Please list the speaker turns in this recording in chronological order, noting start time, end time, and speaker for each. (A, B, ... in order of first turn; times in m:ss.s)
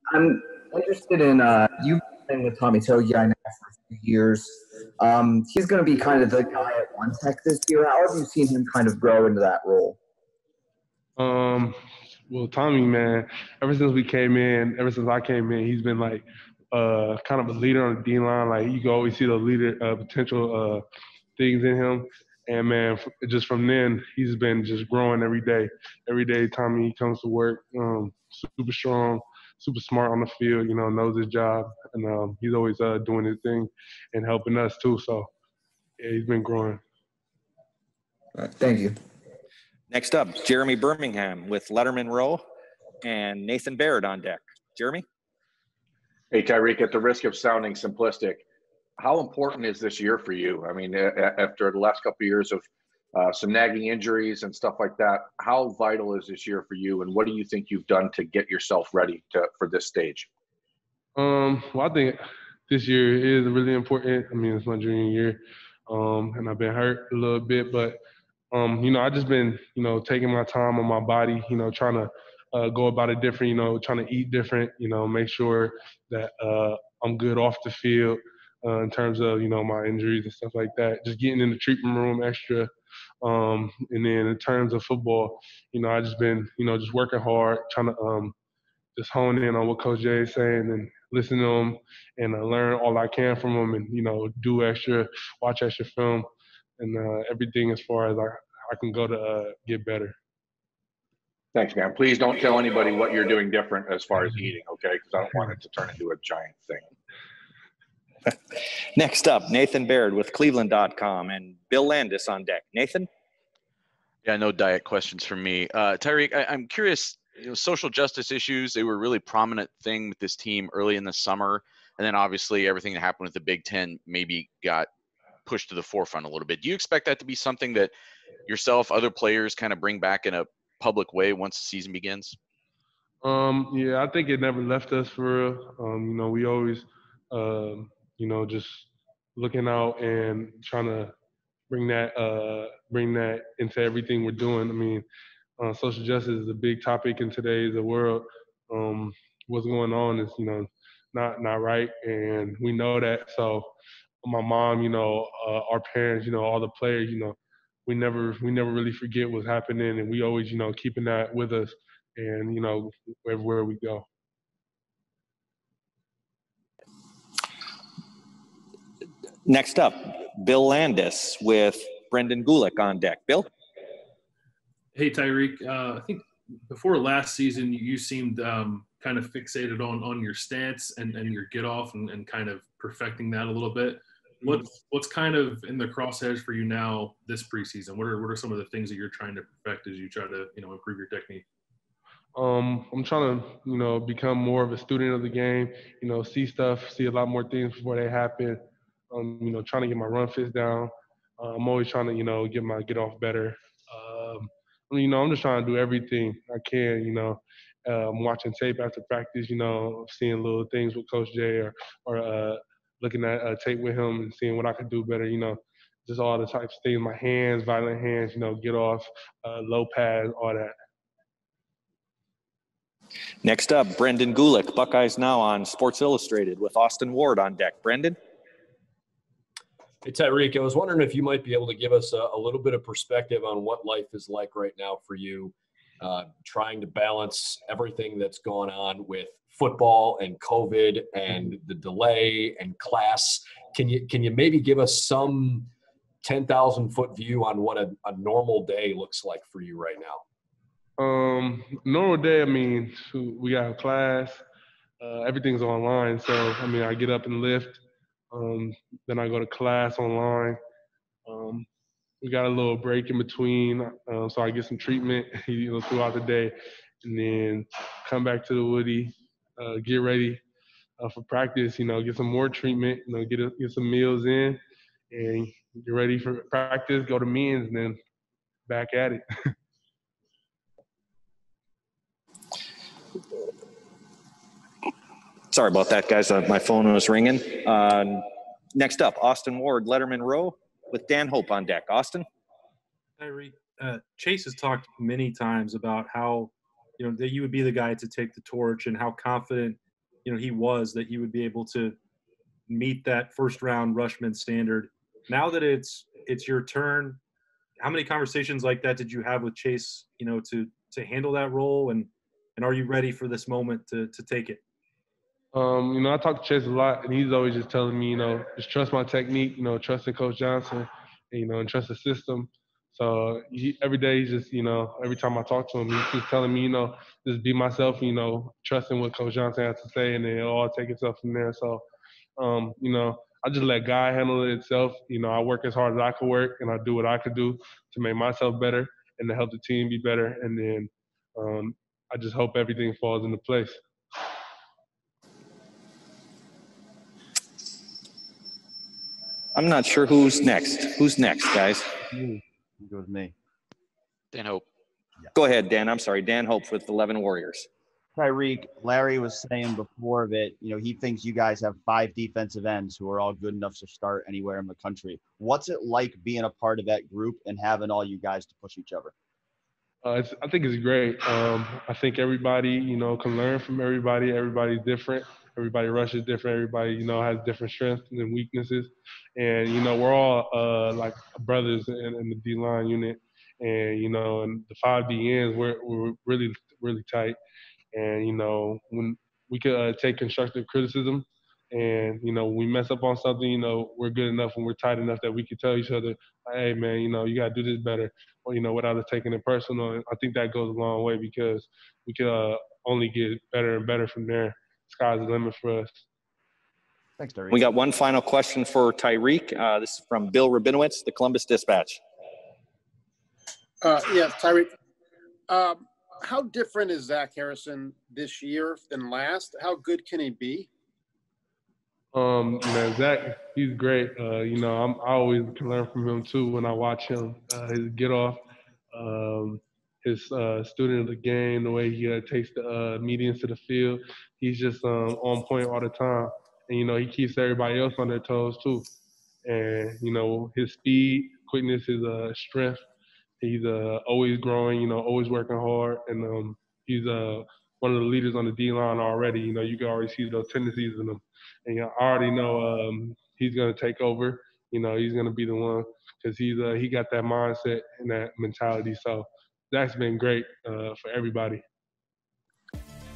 0:00.1-0:04.4 A
0:05.0-0:06.0 A
0:06.9-0:10.0 A
0:11.2-0:11.8 B
0:12.3-0:20.8 B
0:21.4-0:35.3 B
0:36.0-0:36.8 B
0:38.6-0:38.9 A
0:39.9-0:42.4 C
0:43.0-0:45.0 C
0:46.3-0:48.4 D
0:49.0-1:00.3 D
1:01.2-1:08.0 B
1:08.5-1:22.7 B
1:23.2-1:28.3 B
1:29.0-1:36.3 B
1:36.8-1:40.1 B
1:41.6-1:46.8 D
1:49.0-1:53.1 C
1:54.2-2:04.9 E
2:05.5-2:07.9 E
2:08.5-2:12.4 E
2:13.2-2:21.1 B
2:21.7-2:25.0 B
2:25.6-2:33.7 B
2:34.2-2:44.0 B
2:49.5-2:53.5 C
2:54.9-3:11.4 F
3:12.4-3:18.6 B
3:19.1-3:40.7 B
3:43.4-3:48.2 C
3:50.0-4:05.7 G
4:06.2-4:10.2 G
4:11.0-4:14.4 B
4:15.0-4:20.6 B
4:21.3-4:21.7 B
4:22.2-4:30.4 B
4:31.0-4:34.6 B
4:35.1-4:38.0 B
4:38.7-4:39.2 B
4:45.5-4:52.3 C
4:53.2-5:02.0 H
5:02.7-5:07.2 H
5:07.8-5:14.6 H
5:15.5-5:31.8 B
5:32.4-5:43.8 B
5:49.6-5:51.9 C
5:52.1-5:53.3 I
5:54.3-5:54.6 E
5:55.4-5:57.7 C
5:58.2-6:09.1 I
6:10.0-6:27.4 B
6:27.9-6:46.0 B
6:47.2-6:47.6 I
6:47.5-6:52.0 C
6:53.8-6:54.7 J
6:55.5-7:00.7 J
7:02.1-7:08.4 B
7:08.9-7:18.9 B
7:19.4-7:22.8 B
7:23.4-7:41.6 B